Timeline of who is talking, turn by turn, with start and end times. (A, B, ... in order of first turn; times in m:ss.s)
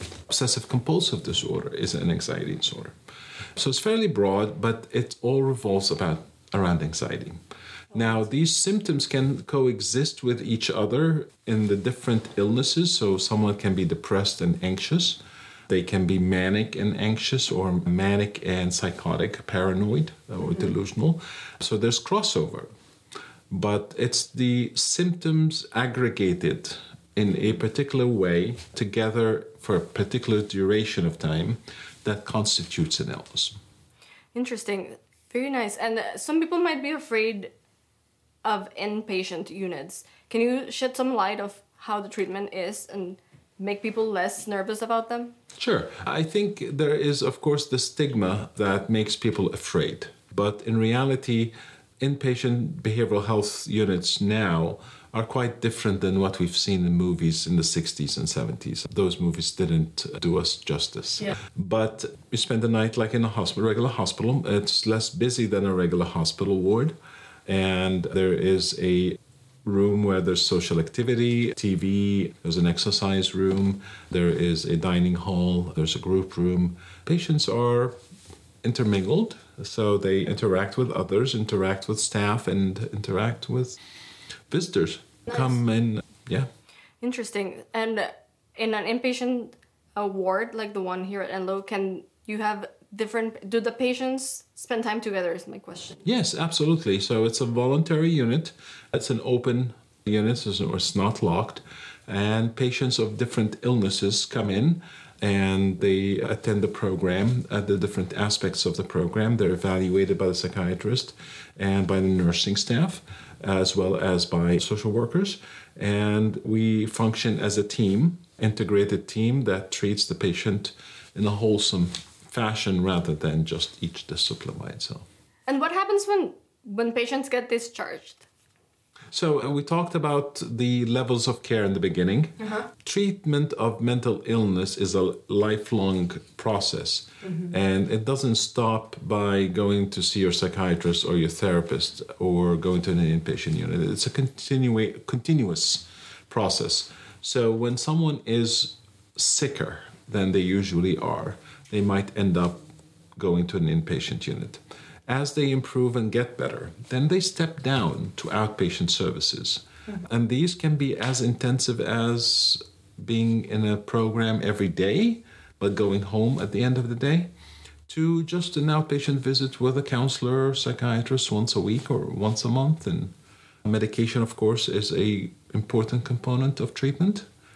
0:00.3-0:03.0 A
0:03.6-0:07.4 A
0:07.9-0:22.7 A
0:23.5-0:33.6 A
0:34.3-0:37.5 B
0:38.4-0:45.3 B
0:45.6-1:07.0 A
1:07.5-1:18.0 A
1:18.6-1:23.8 A
1:24.5-1:26.5 A
1:27.0-1:36.0 B
1:36.0-2:05.1 A
2:05.5-2:08.2 B
2:09.1-2:32.6 A
2:17.2-2:17.5 B
2:33.2-2:47.3 A
2:47.9-2:53.1 A
2:53.6-2:57.3 A